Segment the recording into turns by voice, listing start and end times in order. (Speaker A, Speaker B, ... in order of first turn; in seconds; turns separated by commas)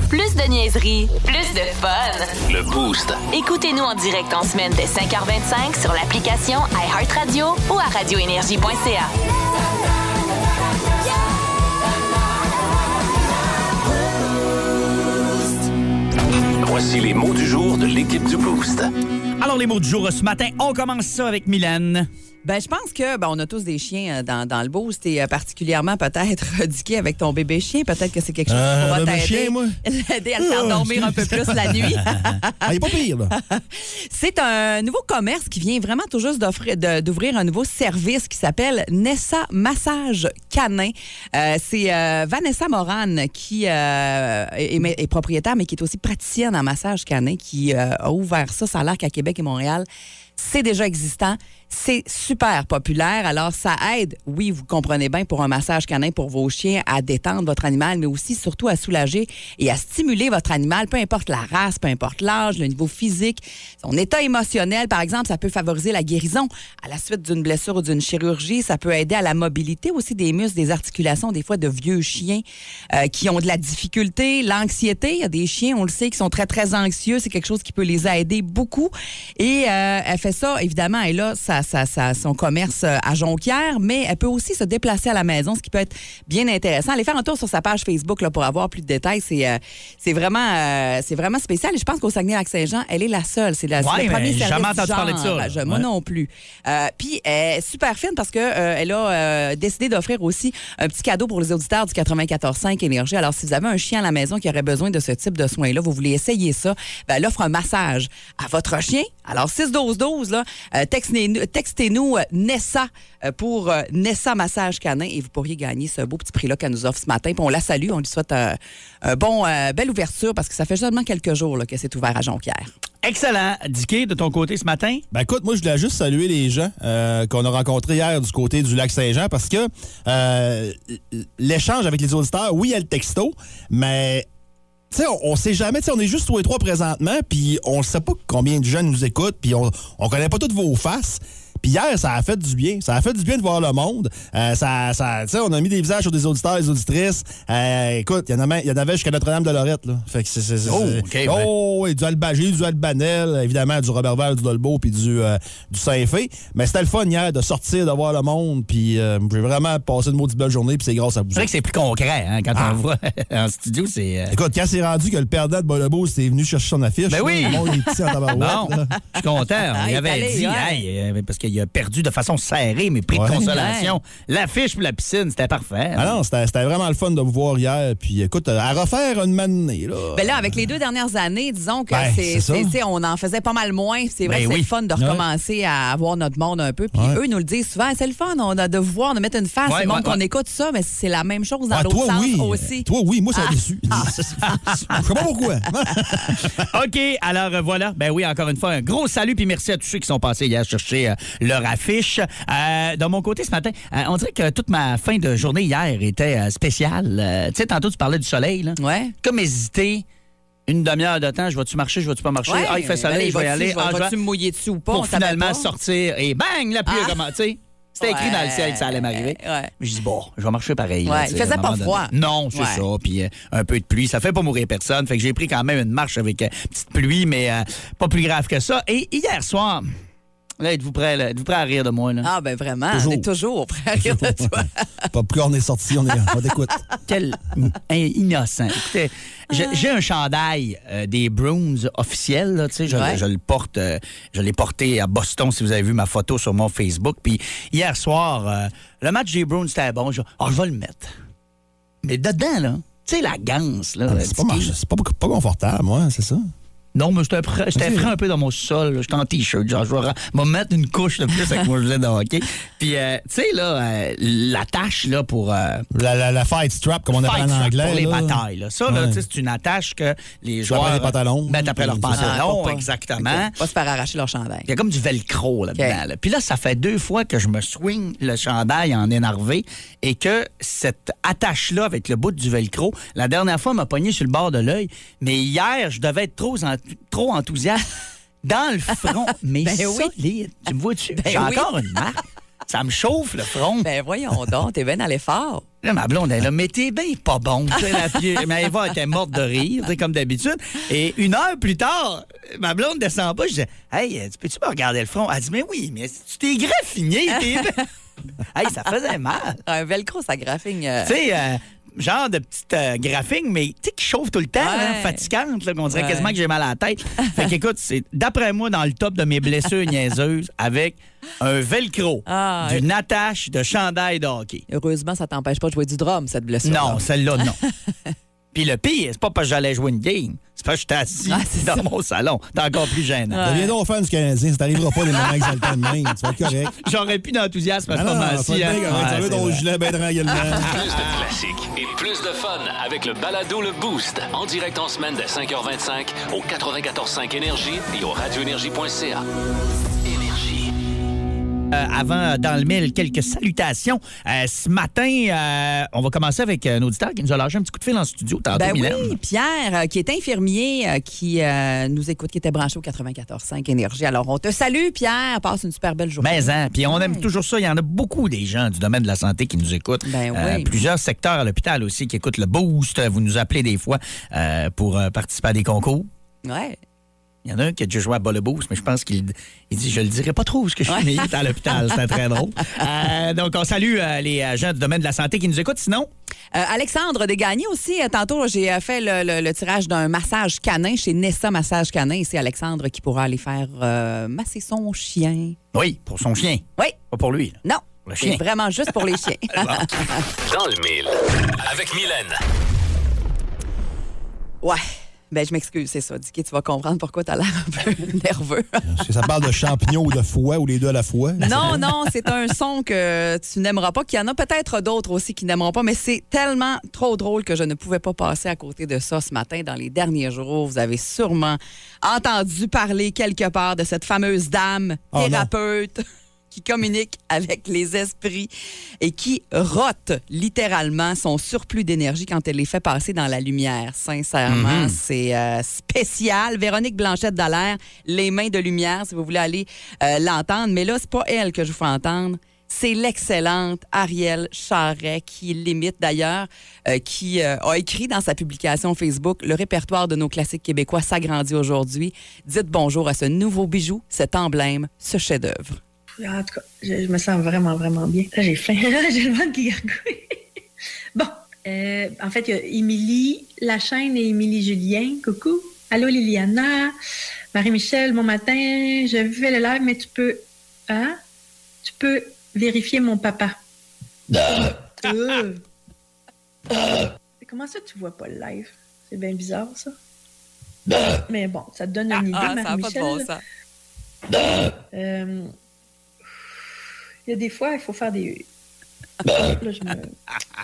Speaker A: 0.1-2.3, Speaker B: 2.5-3.2, Speaker A: 3.3-9.1, Speaker B: 16.6-18.9, Speaker C: 19.4-22.1, Speaker D: 22.4-32.7, Speaker E: 28.5-29.8, Speaker E: 30.4-32.0, Speaker E: 32.6-33.3, Speaker D: 33.4-122.7, Speaker C: 93.8-95.8, Speaker C: 123.0-125.0, Speaker E: 125.1-134.3, Speaker E: 134.9-161.5, Speaker C: 150.7-151.5, Speaker C: 161.3-164.3, Speaker E: 162.5-162.8, Speaker E: 164.3-168.9, Speaker C: 167.1-167.6, Speaker D: 167.4-168.3, Speaker C: 168.3-176.2, Speaker D: 168.9-170.8, Speaker E: 173.1-173.5, Speaker D: 173.5-173.9, Speaker E: 175.9-180.6, Speaker D: 180.1-194.1, Speaker E: 181.9-182.7, Speaker C: 184.2-184.7, Speaker E: 185.0-185.2, Speaker E: 186.9-187.2, Speaker C: 189.7-190.2, Speaker E: 191.7-196.7, Speaker C: 196.5-210.0, Speaker D: 208.8-209.1, Speaker C: 210.7-214.1, Speaker D: 212.5-215.7, Speaker C: 214.9-229.9, Speaker D: 216.9-217.2, Speaker D: 218.0-219.7, Speaker D: 221.1-222.8, Speaker C: 230.6-232.3, Speaker D: 232.2-234.9, Speaker E: 232.9-233.2, Speaker E: 234.0-236.7, Speaker C: 237.1-251.1, Speaker D: 242.9-243.2, Speaker C: 252.0-254.7, Speaker E: 254.1-256.5, Speaker C: 256.9-265.9, Speaker E: 257.7-258.1, Speaker E: 265.9-269.2, Speaker C: 267.2-273.5, Speaker E: 270.6-272.4, Speaker D: 272.1-274.7, Speaker C: 274.7-287.9, Speaker C: 288.4-293.9, Speaker D: 289.6-290.1, Speaker D: 291.1-291.7, Speaker D: 293.8-295.6, Speaker C: 295.8-307.8, Speaker C: 308.5-309.6, Speaker D: 309.6-311.1, Speaker C: 311.0-324.6, Speaker D: 314.6-315.3, Speaker D: 315.9-316.3, Speaker D: 322.3-322.8, Speaker D: 324.7-327.7, Speaker C: 326.6-327.6, Speaker C: 328.5-333.4, Speaker D: 331.3-331.8, Speaker D: 333.3-333.7, Speaker E: 333.4-336.7, Speaker D: 335.2-335.6, Speaker C: 336.8-339.6, Speaker E: 337.9-340.8, Speaker B: 340.6-349.2, Speaker B: 350.0-350.7, Speaker C: 351.7-359.1, Speaker D: 358.5-367.2, Speaker C: 366.2-376.1, Speaker D: 370.1-370.7, Speaker D: 376.4-376.8, Speaker C: 377.4-386.1, Speaker D: 380.9-382.2, Speaker D: 386.5-395.6, Speaker C: 395.7-398.4, Speaker D: 397.6-400.2, Speaker C: 399.6-399.8, Speaker B: 400.4-402.4, Speaker D: 404.6-409.3, Speaker E: 408.9-411.9, Speaker D: 411.4-428.5, Speaker E: 425.1-425.5, Speaker D: 429.0-455.8, Speaker C: 434.5-434.9, Speaker F: 456.2-460.4, Speaker F: 461.1-466.9, Speaker F: 467.5-471.2, Speaker F: 471.8-473.6, Speaker F: 474.3-475.6, Speaker F: 477.4-479.9, Speaker F: 480.9-483.3, Speaker D: 482.1-483.4, Speaker F: 484.9-485.5, Speaker F: 487.3-488.5, Speaker F: 489.2-490.1